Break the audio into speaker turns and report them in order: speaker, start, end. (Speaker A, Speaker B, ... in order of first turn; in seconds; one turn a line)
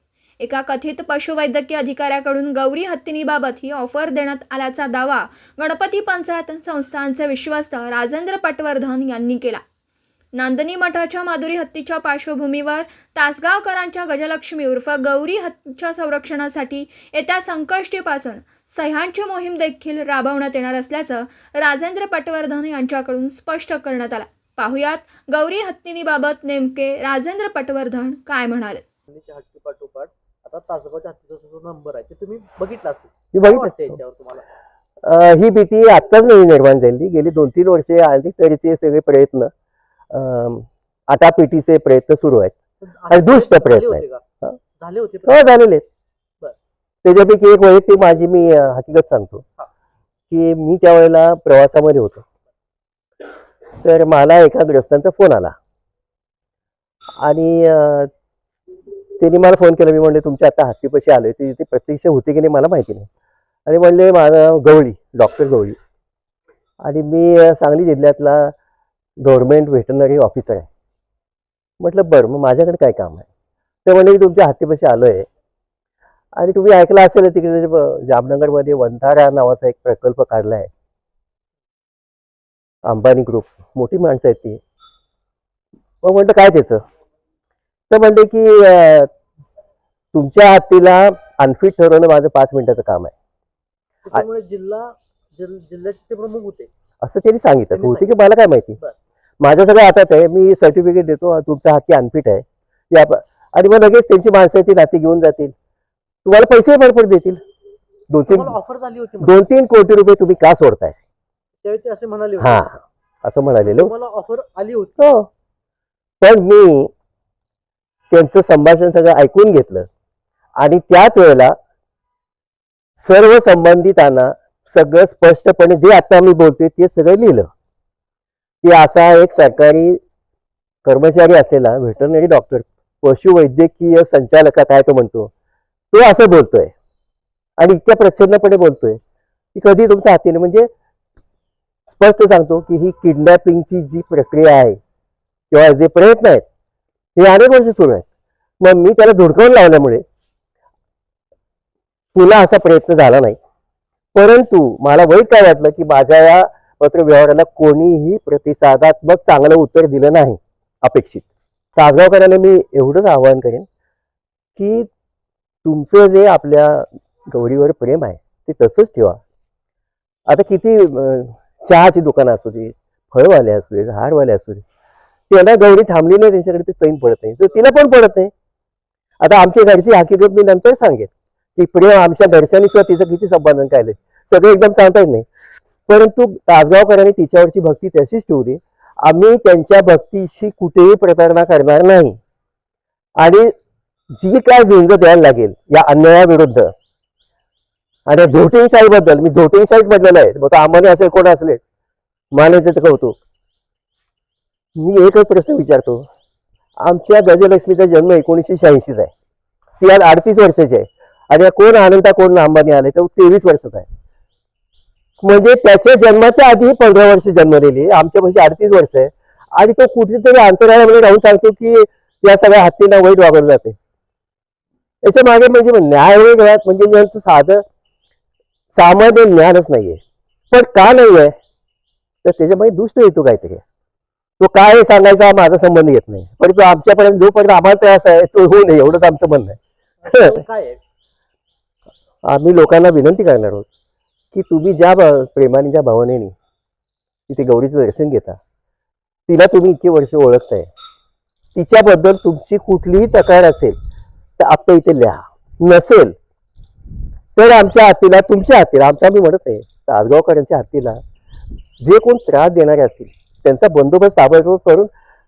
Speaker A: 0.4-9.6
Speaker A: 10.3-28.8
Speaker B: 29.1-34.5
Speaker C: 33.3-34.0
Speaker C: 35.0-39.5
Speaker C: 40.1-42.6
Speaker B: 42.8-44.2
Speaker C: 43.1-44.6
Speaker B: 44.8-45.4
Speaker C: 45.2-45.9
Speaker C: 47.0-49.4
Speaker C: 50.3-52.2
Speaker C: 53.8-55.6
Speaker C: 57.2-58.1
Speaker C: 59.2-63.1
Speaker C: 63.7-65.8
Speaker C: 66.8-68.5
Speaker C: 69.2-70.7
Speaker C: 71.8-73.3
Speaker C: 73.8-75.3
Speaker C: 76.3-80.7
Speaker C: 82.8-84.6
Speaker C: 86.0-86.8
Speaker C: 87.9-89.1
Speaker C: 90.1-93.1
Speaker B: 94.1-96.7
Speaker C: 97.0-98.8
Speaker B: 97.7-98.1
Speaker C: 99.4-105.5
Speaker C: 106.2-107.4
Speaker C: 108.1-108.5
Speaker B: 108.3-109.4
Speaker C: 109.2-111.0
Speaker B: 111.6-112.7
Speaker C: 112.4-113.9
Speaker B: 113.6-115.1
Speaker C: 115.0-115.3
Speaker C: 116.2-116.9
Speaker C: 118.1-119.9
Speaker C: 120.6-121.5
Speaker C: 123.0-127.5
Speaker C: 128.6-130.0
Speaker C: 130.8-135.3
Speaker C: 135.9-136.7
Speaker C: 137.6-139.0
Speaker C: 139.6-140.7
Speaker C: 141.9-144.8
Speaker C: 145.5-146.4
Speaker C: 147.2-148.1
Speaker C: 148.6-150.0
Speaker C: 152.1-153.4
Speaker C: 154.2-163.7
Speaker C: 164.6-164.9
Speaker C: 165.6-169.2
Speaker C: 170.3-174.6
Speaker C: 175.3-178.3
Speaker C: 179.2-185.3
Speaker C: 185.9-192.2
Speaker C: 193.2-193.5
Speaker C: 194.2-196.7
Speaker C: 198.1-201.6
Speaker C: 202.3-203.2
Speaker C: 204.8-206.1
Speaker C: 206.8-209.1
Speaker C: 209.8-213.9
Speaker C: 215.2-223.8
Speaker C: 225.0-227.6
Speaker C: 228.7-231.3
Speaker C: 232.2-233.6
Speaker C: 234.4-240.4
Speaker B: 240.0-240.8
Speaker C: 242.2-243.7
Speaker C: 244.3-246.3
Speaker C: 247.3-248.4
Speaker C: 249.3-250.7
Speaker C: 251.6-253.8
Speaker C: 254.4-256.1
Speaker C: 257.4-261.0
Speaker C: 261.8-264.9